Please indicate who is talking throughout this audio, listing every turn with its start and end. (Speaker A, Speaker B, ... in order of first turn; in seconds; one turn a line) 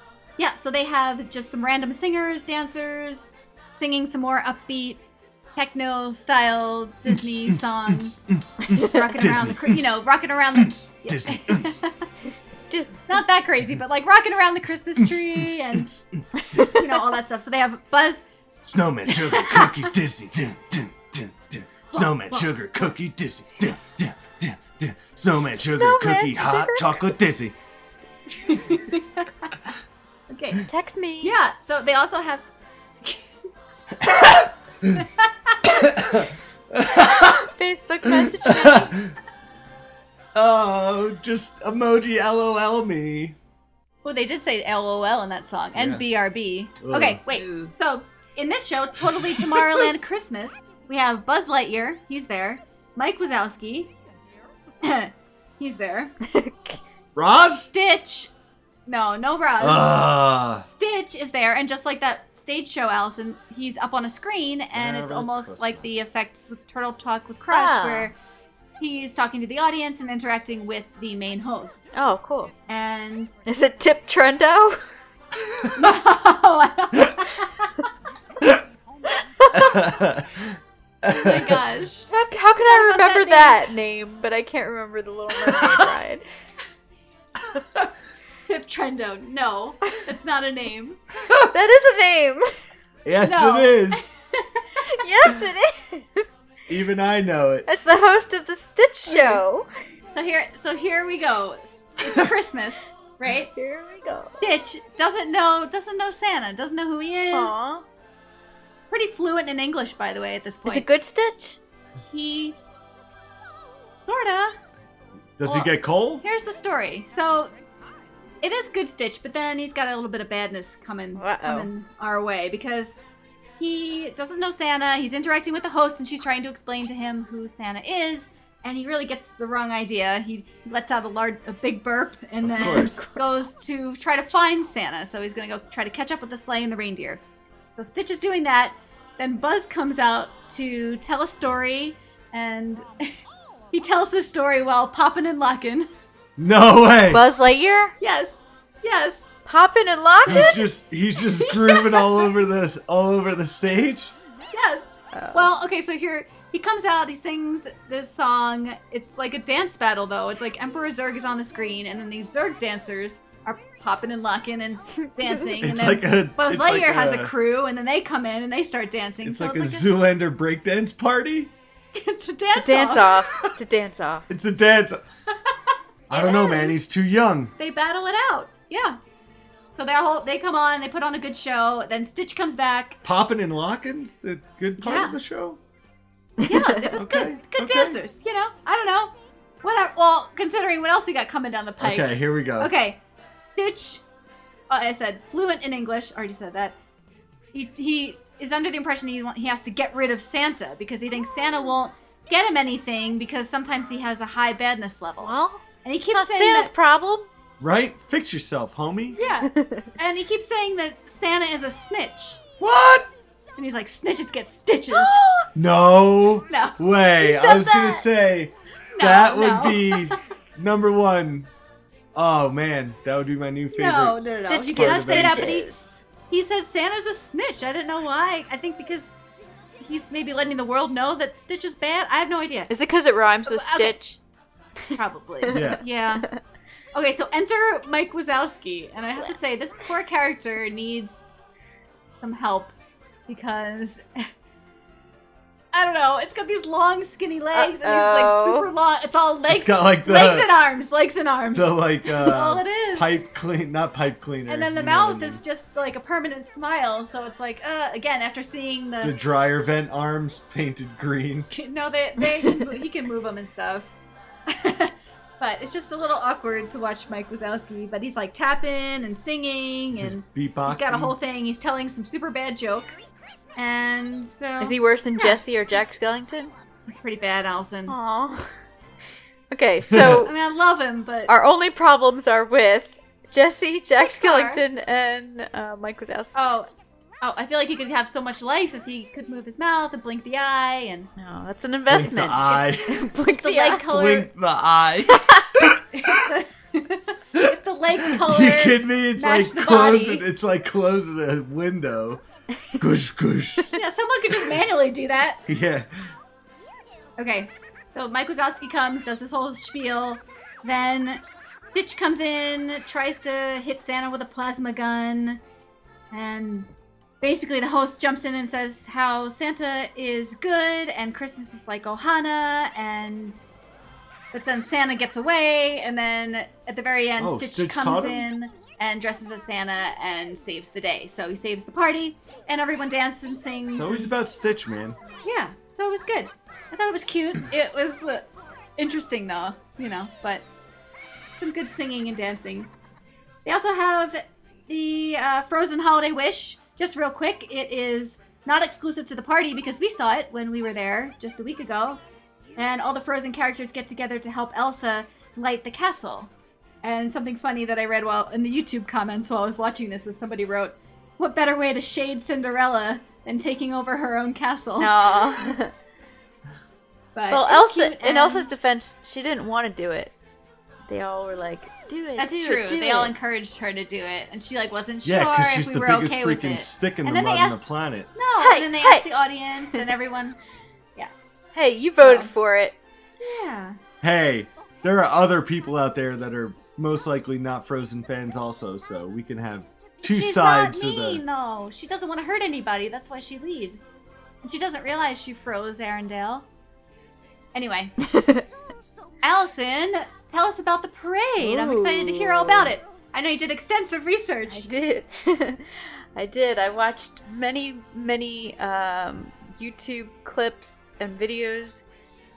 Speaker A: 0.4-3.3
Speaker A: 3.8-5.0
Speaker A: 5.5-12.0
Speaker B: 7.1-10.0
Speaker B: 10.6-11.8
Speaker C: 12.7-13.5
Speaker A: 13.1-15.9
Speaker B: 15.0-16.2
Speaker C: 16.4-17.0
Speaker A: 16.6-18.2
Speaker B: 18.7-27.6
Speaker A: 19.3-19.7
Speaker A: 21.9-22.9
Speaker C: 25.5-27.1
Speaker A: 28.3-29.7
Speaker A: 30.3-30.7
Speaker C: 30.6-31.4
Speaker A: 31.2-32.5
Speaker B: 34.0-35.0
Speaker A: 35.0-35.8
Speaker B: 35.7-37.5
Speaker C: 37.0-39.0
Speaker B: 38.0-39.1
Speaker B: 40.4-43.4
Speaker A: 44.0-53.9
Speaker B: 45.8-46.0
Speaker B: 46.8-47.2
Speaker C: 47.3-47.7
Speaker A: 54.8-56.1
Speaker C: 56.2-56.8
Speaker B: 57.1-57.7
Speaker A: 57.7-58.3
Speaker A: 58.9-59.9
Speaker B: 59.6-60.6
Speaker A: 60.8-68.2
Speaker B: 64.7-65.9
Speaker C: 67.5-68.1
Speaker A: 68.8-71.8
Speaker C: 71.9-72.5
Speaker A: 72.7-73.3
Speaker C: 73.5-74.8
Speaker A: 75.7-77.7
Speaker C: 79.2-79.7
Speaker B: 79.6-81.5
Speaker A: 81.1-82.1
Speaker C: 82.1-86.2
Speaker A: 82.6-83.6
Speaker B: 87.6-87.9
Speaker A: 88.5-91.0
Speaker C: 91.5-92.5
Speaker B: 93.0-94.0
Speaker A: 93.2-94.9
Speaker C: 94.9-96.4
Speaker B: 96.7-97.7
Speaker C: 97.7-99.7
Speaker A: 99.1-99.4
Speaker A: 100.2-103.5
Speaker C: 103.3-104.4
Speaker A: 104.4-107.5
Speaker C: 107.3-107.9
Speaker A: 108.9-110.9
Speaker C: 110.7-111.6
Speaker A: 112.0-112.6
Speaker A: 114.1-114.6
Speaker B: 115.4-116.2
Speaker A: 115.5-117.5
Speaker A: 118.4-123.0
Speaker C: 121.2-121.7
Speaker A: 123.6-137.2
Speaker B: 132.4-133.0
Speaker C: 132.6-133.2
Speaker A: 137.8-143.2
Speaker A: 143.7-145.9
Speaker B: 146.4-147.2
Speaker C: 147.1-147.9
Speaker A: 148.0-149.2
Speaker C: 149.5-150.6
Speaker B: 150.3-154.1
Speaker A: 151.4-152.3
Speaker A: 154.5-169.9
Speaker C: 155.1-155.5
Speaker B: 165.6-167.3
Speaker B: 169.2-171.5
Speaker A: 171.9-173.1
Speaker C: 172.5-174.3
Speaker B: 174.3-175.0
Speaker A: 176.1-176.8
Speaker B: 176.1-177.5
Speaker A: 177.6-179.0
Speaker A: 179.8-183.0
Speaker B: 183.0-185.6
Speaker A: 184.8-185.2
Speaker A: 186.4-193.0
Speaker B: 187.0-188.0
Speaker B: 191.8-192.7
Speaker A: 193.6-194.0
Speaker A: 194.7-196.8
Speaker A: 197.5-206.7
Speaker C: 205.2-207.3
Speaker B: 207.6-209.2
Speaker A: 209.2-212.4
Speaker C: 209.4-209.9
Speaker B: 212.6-213.1
Speaker A: 213.6-215.2
Speaker C: 214.9-215.5
Speaker B: 215.6-221.5
Speaker A: 216.5-216.8
Speaker C: 217.2-218.0
Speaker A: 219.0-220.1
Speaker B: 222.2-225.5
Speaker A: 223.7-225.7
Speaker C: 224.5-226.0
Speaker A: 226.3-229.1
Speaker A: 229.8-232.7
Speaker C: 232.7-234.2
Speaker A: 233.5-234.0
Speaker C: 234.9-236.4
Speaker A: 234.9-236.3
Speaker B: 235.5-235.8
Speaker A: 236.9-241.2
Speaker A: 242.2-242.7
Speaker A: 243.3-244.3
Speaker A: 245.7-253.2
Speaker C: 247.5-248.7
Speaker B: 249.5-250.5
Speaker B: 251.5-255.4
Speaker A: 254.5-259.1
Speaker B: 259.0-261.5
Speaker A: 261.5-263.9
Speaker C: 262.4-262.8
Speaker A: 264.5-275.4
Speaker B: 270.2-271.2
Speaker C: 274.6-276.5
Speaker A: 276.9-277.9
Speaker C: 277.9-278.5
Speaker C: 279.5-280.3
Speaker B: 279.9-280.2
Speaker A: 280.1-281.3
Speaker C: 281.3-286.4
Speaker A: 284.0-284.6
Speaker A: 286.4-286.7
Speaker A: 287.2-291.1
Speaker C: 291.2-293.9
Speaker B: 291.9-293.1
Speaker A: 293.3-294.3
Speaker B: 293.9-296.3
Speaker C: 295.1-295.5
Speaker A: 295.9-300.2
Speaker B: 298.1-302.2
Speaker B: 302.8-303.7
Speaker A: 303.7-305.4
Speaker B: 305.5-305.9
Speaker A: 307.2-311.2
Speaker A: 311.7-315.4
Speaker A: 316.1-316.7
Speaker A: 317.2-323.4
Speaker A: 324.3-334.1
Speaker B: 327.2-328.3
Speaker B: 333.7-335.0
Speaker A: 335.2-338.3
Speaker A: 338.8-340.4
Speaker A: 341.4-342.7
Speaker A: 343.4-352.0
Speaker A: 352.6-356.3
Speaker A: 356.8-365.0
Speaker C: 364.8-365.7
Speaker A: 367.1-368.5
Speaker C: 367.3-370.1
Speaker C: 370.9-373.1
Speaker A: 372.2-380.4
Speaker B: 375.1-378.1
Speaker C: 378.4-379.1
Speaker C: 381.6-382.8
Speaker A: 382.0-382.3
Speaker A: 383.2-383.8
Speaker B: 384.0-391.2
Speaker A: 390.0-393.9
Speaker A: 394.4-396.5
Speaker A: 397.5-397.9
Speaker C: 398.0-398.5
Speaker A: 399.2-404.7
Speaker C: 401.4-402.8
Speaker C: 404.5-411.8